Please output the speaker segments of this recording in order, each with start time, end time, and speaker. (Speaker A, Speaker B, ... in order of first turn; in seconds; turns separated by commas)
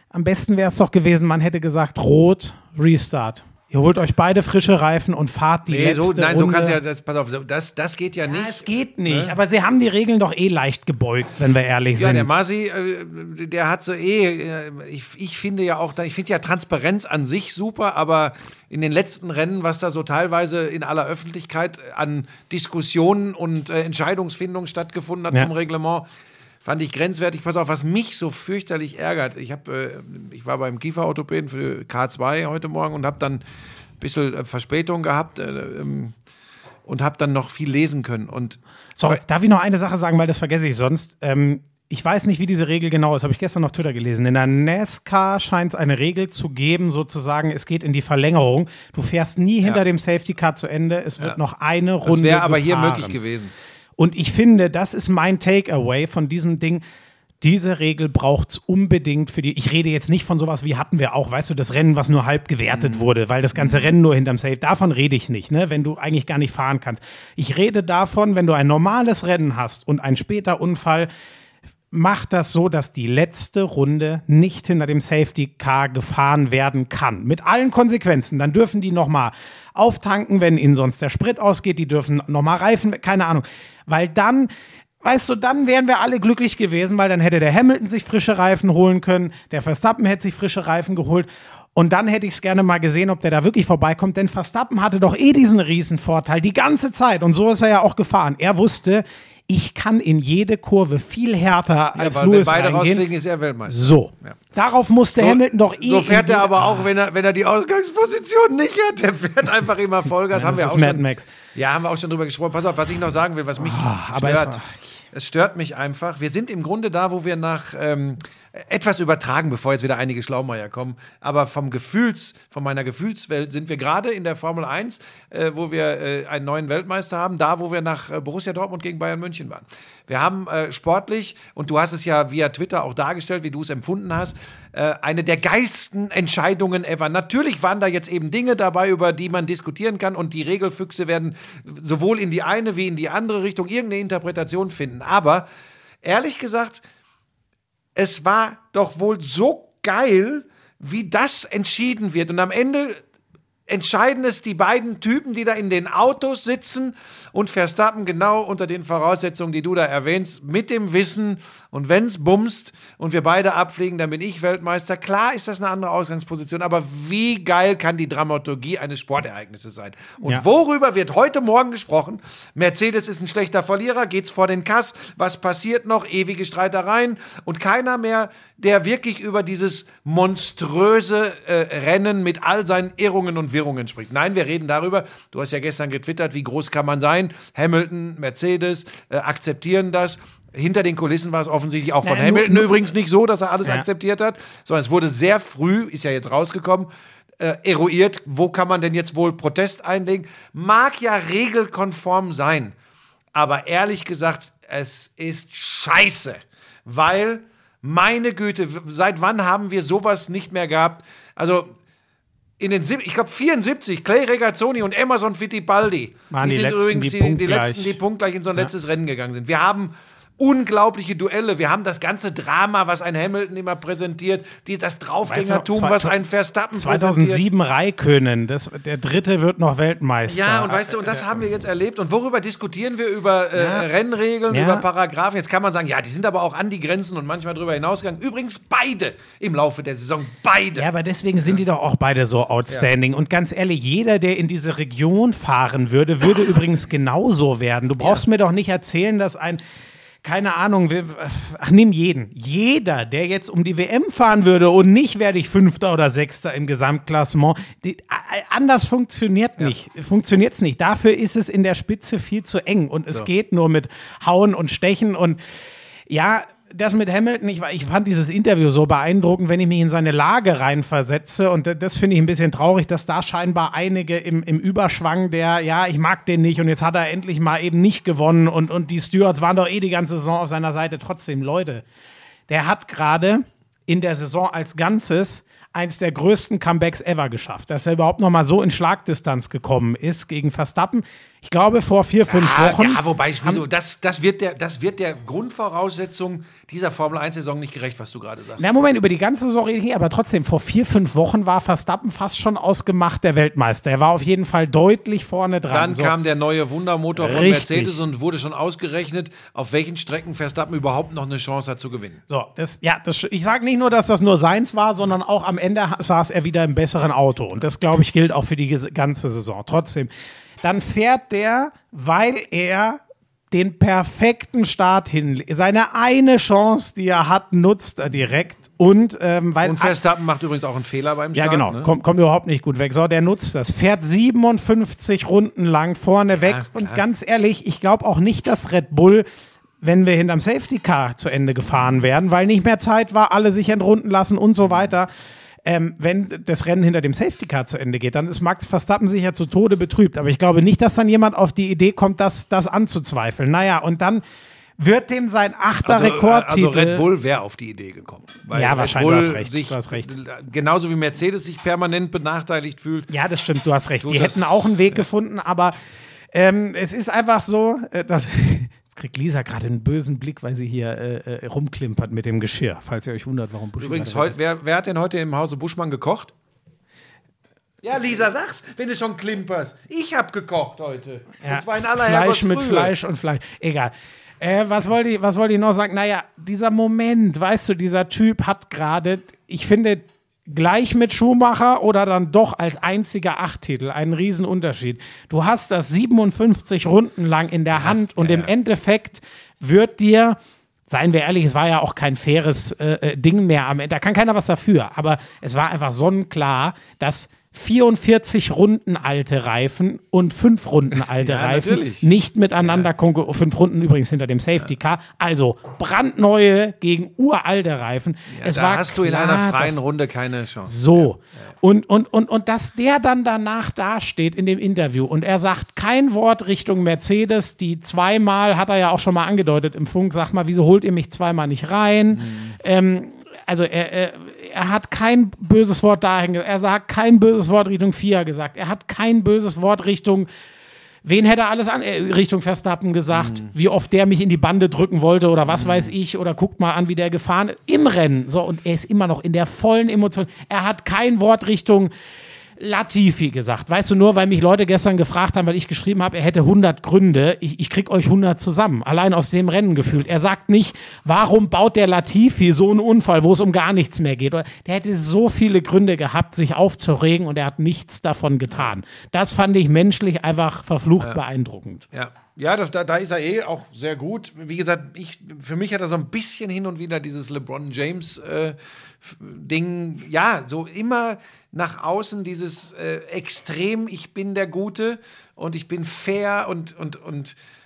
Speaker A: 0.1-6.8, Speaker B: 5.7-9.3, Speaker A: 8.3-12.3, Speaker B: 12.0-26.1, Speaker B: 26.6-33.4, Speaker B: 34.0-36.1, Speaker B: 36.9-39.2, Speaker A: 39.0-53.2, Speaker B: 52.0-53.5, Speaker A: 54.0-56.8, Speaker A: 57.4-71.1, Speaker B: 62.7-63.9, Speaker A: 71.9-84.5, Speaker A: 85.0-103.0, Speaker B: 102.0-104.4, Speaker A: 103.7-106.9, Speaker B: 105.2-111.0, Speaker A: 110.3-111.3, Speaker B: 111.5-114.6, Speaker A: 113.6-114.7, Speaker B: 115.1-145.5, Speaker B: 146.0-146.8, Speaker B: 148.0-153.0, Speaker B: 153.7-202.8, Speaker A: 192.0-192.8, Speaker B: 203.3-211.8, Speaker B: 212.6-227.5, Speaker A: 216.3-218.0, Speaker A: 225.3-226.1, Speaker A: 226.8-231.3, Speaker B: 230.2-240.9, Speaker A: 233.6-233.9, Speaker A: 234.5-234.8, Speaker A: 240.8-249.6, Speaker A: 250.2-265.4, Speaker A: 266.1-281.8, Speaker A: 282.5-293.6, Speaker B: 292.3-298.7, Speaker A: 298.6-306.1, Speaker B: 305.7-312.2, Speaker A: 307.2-308.0, Speaker A: 312.3-320.1, Speaker A: 320.6-330.0, Speaker B: 329.6-331.9, Speaker A: 331.3-339.3, Speaker B: 336.4-337.0, Speaker A: 339.8-345.1, Speaker A: 345.6-354.2, Speaker A: 354.8-357.0, Speaker B: 355.8-363.1, Speaker A: 358.5-360.1, Speaker A: 363.1-365.8, Speaker B: 364.0-365.0, Speaker A: 366.3-374.4, Speaker B: 373.8-376.3, Speaker B: 377.8-382.9, Speaker A: 381.4-419.8, Speaker B: 397.7-398.5, Speaker B: 411.2-412.1, Speaker B: 412.6-412.9, Speaker B: 418.3-421.5, Speaker A: 420.7-440.3, Speaker B: 432.2-432.6, Speaker A: 441.0-451.9, Speaker B: 443.1-443.5, Speaker B: 445.5-445.9, Speaker A: 452.6-471.9, Speaker B: 471.9-487.4